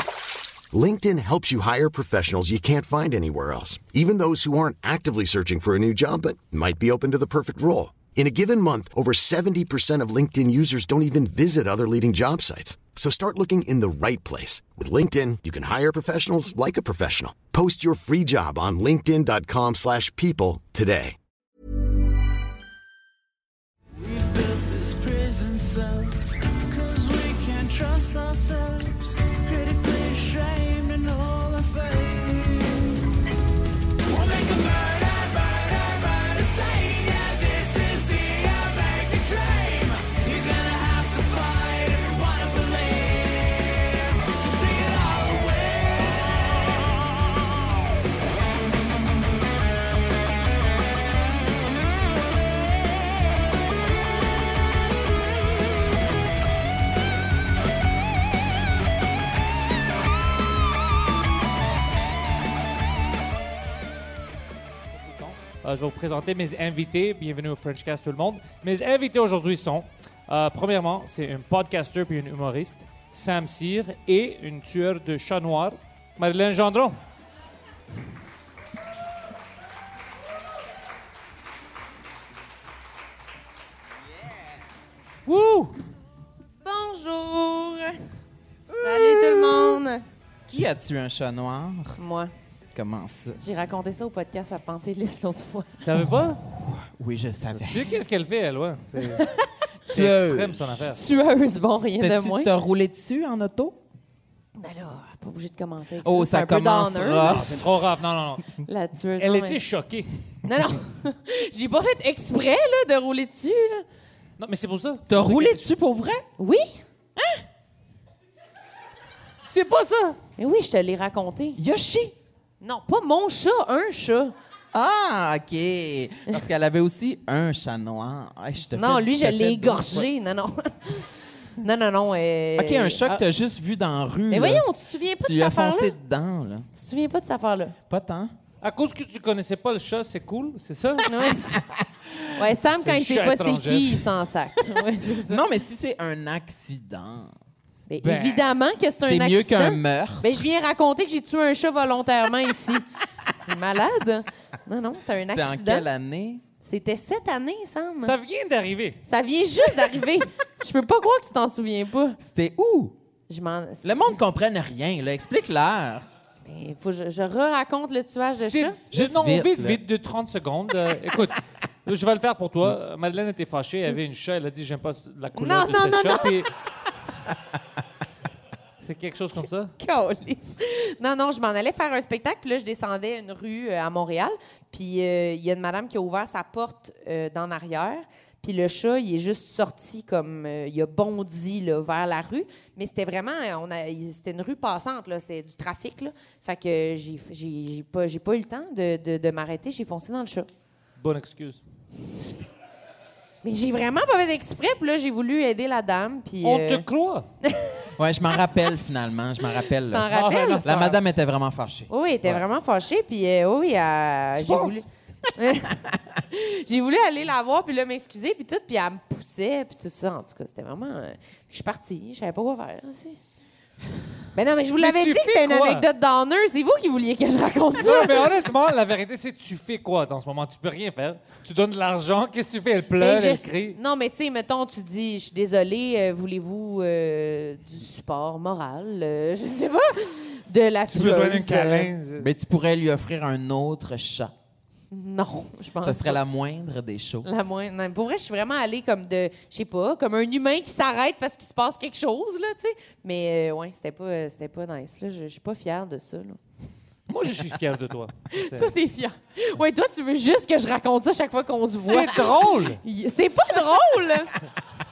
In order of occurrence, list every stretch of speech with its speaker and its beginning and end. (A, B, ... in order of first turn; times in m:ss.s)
0:00.7-0:21.2 A
0:23.9-0:33.0 B
0:34.0-0:47.1 B
1:04.9-1:17.0 C
1:25.2-1:25.7 C
1:26.6-1:28.1 D
1:28.7-1:30.0 D
1:28.7-1:29.8 E
1:30.5-1:32.0 E
1:32.0-1:32.3 D
1:32.7-1:33.4 E
1:33.4-1:35.8 D
1:35.8-1:36.4 C
1:36.6-1:38.0 E
1:37.6-1:39.3 C
1:39.8-1:40.7 E
1:39.9-1:41.0 C
1:40.9-1:42.5 D
1:42.0-1:43.8 E
1:44.6-1:47.4 D
1:46.0-1:47.6 E
1:47.2-1:48.6 C
1:48.6-1:49.6 D
1:49.2-1:50.1 C
1:50.4-1:53.8 D
1:54.4-1:55.6 C
1:55.1-1:56.2 E
1:56.4-1:56.8 D
1:57.2-1:57.4 E
1:59.4-2:00.2 C
2:00.4-2:01.6 D
2:01.6-2:02.1 E
2:02.6-2:04.3 D
2:04.7-2:10.1 E
2:08.7-2:13.0 D
2:12.6-2:14.6 E
2:14.3-2:15.9 D
2:15.2-2:16.7 E
2:16.7-2:17.7 D
2:17.9-2:18.3 E
2:18.6-2:21.1 C
2:21.0-2:21.6 D
2:21.7-2:22.2 E
2:22.4-2:25.4 D
2:22.7-2:24.0 C
2:25.2-2:27.3 E
2:27.9-2:32.8 D
2:28.0-2:28.5 C
2:29.0-2:30.4 E
2:33.4-2:35.9 D
2:35.3-2:36.4 E
2:36.6-2:38.1 D
2:38.0-2:39.0 C
2:39.0-2:42.2 D
2:42.2-2:43.0 E
2:43.3-2:44.1 D
2:43.8-2:46.0 E
2:46.4-2:48.8 D
2:48.4-2:56.5 C
2:48.9-2:49.8 E
2:55.4-2:56.5 D
2:58.8-2:59.7 C
2:59.8-3:20.5 D
3:21.0-3:21.6 C
3:23.4-3:26.8 D
3:26.4-3:27.3 C
3:27.4-3:27.8 D
3:27.9-3:30.1 E
3:29.8-3:31.0 D
3:30.1-3:30.8 C
3:30.6-3:32.4 E
3:31.9-3:43.2 D
3:34.4-3:34.8 C
3:44.3-3:48.3 D
3:44.8-3:45.8 C
3:47.8-3:53.8 C
3:53.0-4:01.9 D
4:00.9-4:02.3 C
4:02.2-4:04.3 E
4:04.9-4:06.2 D
4:05.8-4:07.3 E
4:07.2-4:16.4 D
4:17.1-4:18.7 C
4:18.3-4:24.4 D
4:21.8-4:22.8 C